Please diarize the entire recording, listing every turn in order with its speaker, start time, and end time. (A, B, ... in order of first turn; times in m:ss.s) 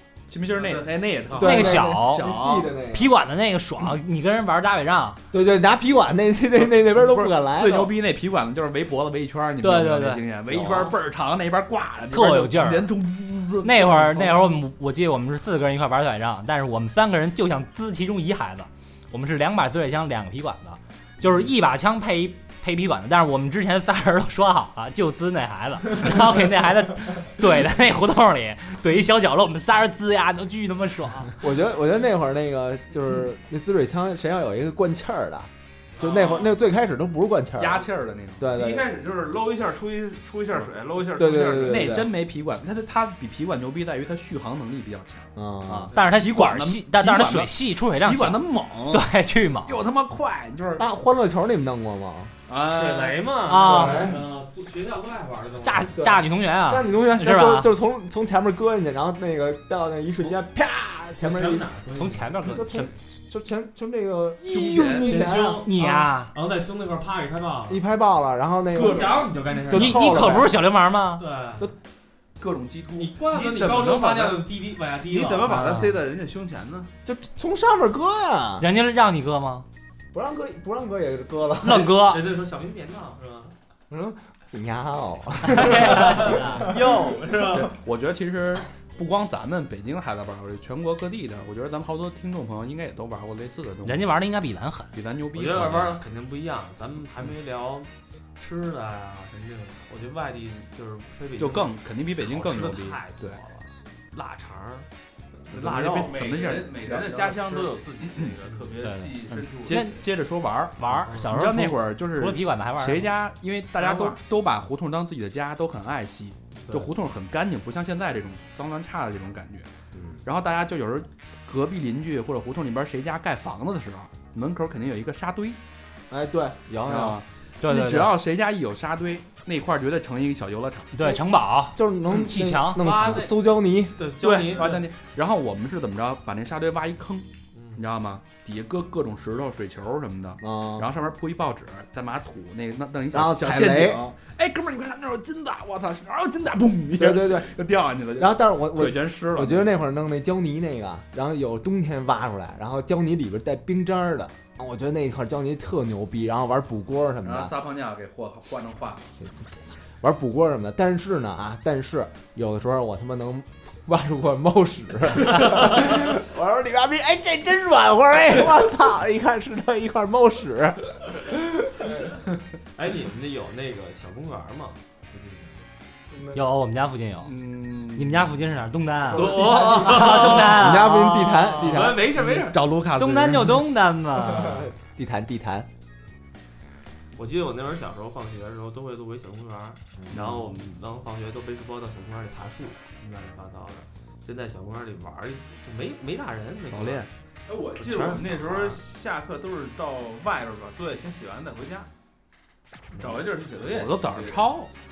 0:00.3-0:02.7 A
0:00.5-0:00.9 B
0:01.3-0:03.1 C
0:01.4-0:02.3 D
0:02.9-0:05.2 D
0:05.3-0:07.9 C
0:06.6-0:14.5 A
0:09.6-0:10.2 D
0:10.5-0:10.9 C
0:12.1-0:12.9 D
0:13.6-0:31.3 D
0:31.4-0:37.8 C
0:36.0-0:36.5 B
0:37.6-0:38.4 A
0:38.4-0:38.9 C
0:38.5-0:42.0 B
0:41.2-0:42.1 C
0:41.6-0:49.0 A
0:45.3-0:45.9 C
0:45.9-0:49.8 D
0:49.6-0:50.8 A
0:50.8-0:52.3 C
0:52.5-0:53.2 A
0:52.6-0:56.1 E
0:53.4-0:54.1 D
0:53.6-0:54.2 C
0:55.6-0:57.7 D
0:56.0-1:01.7 C
1:01.2-1:02.3 E
1:01.9-1:02.9 D
1:02.4-1:05.7 C
1:04.4-1:05.1 A
1:04.9-1:07.8 E
1:05.6-1:06.3 D
1:07.7-1:10.5 C
1:08.7-1:10.4 E
1:08.8-1:09.2 A
1:09.7-1:11.2 D
1:11.2-1:11.7 E
1:12.4-1:13.1 A
1:13.0-1:15.7 E
1:13.2-1:14.5 B
1:15.1-1:16.9 B
1:15.5-1:15.9 D
1:17.0-1:18.6 C
1:18.6-1:19.6 D
1:20.1-1:21.9 C
1:21.6-1:22.2 D
1:21.7-1:23.5 E
1:23.9-1:26.9 C
1:25.4-1:26.6 D
1:25.9-1:27.8 E
1:27.5-1:34.1 A
1:33.8-1:34.9 D
1:34.9-1:36.0 A
1:35.3-1:44.9 E
1:41.4-1:43.4 A
1:45.5-1:46.2 E
1:45.5-1:47.6 A
1:46.0-1:49.9 B
1:48.8-1:50.0 D
1:49.3-1:59.7 A
1:50.8-1:53.1 D
1:50.9-1:51.4 E
1:53.8-1:54.2 B
2:00.2-2:05.6 A
2:06.1-2:07.2 C
2:06.8-2:10.9 A
2:07.6-2:08.1 D
2:10.9-2:13.2 D
2:11.7-2:14.0 C
2:12.8-2:14.8 E
2:14.2-2:29.8 A
2:17.5-2:17.8 E
2:20.4-2:20.9 C
2:23.1-2:24.1 C
2:27.0-2:27.5 C
2:28.2-2:37.5 C
2:37.2-2:39.0 A
2:39.2-2:51.9 C
2:52.7-2:55.5 E
2:56.3-2:57.3 D
2:57.2-2:58.4 A
2:57.9-3:01.4 D
2:59.1-3:02.6 E
2:59.1-3:02.1 C
3:02.0-3:03.6 A
3:03.0-3:04.7 D
3:04.2-3:05.7 C
3:07.1-3:17.1 E
3:10.0-3:10.3 C
3:10.1-3:10.5 A
3:16.7-3:17.1 A
3:17.4-3:21.9 B
3:17.8-3:18.8 E
3:22.9-3:24.5 B
3:23.6-3:24.7 A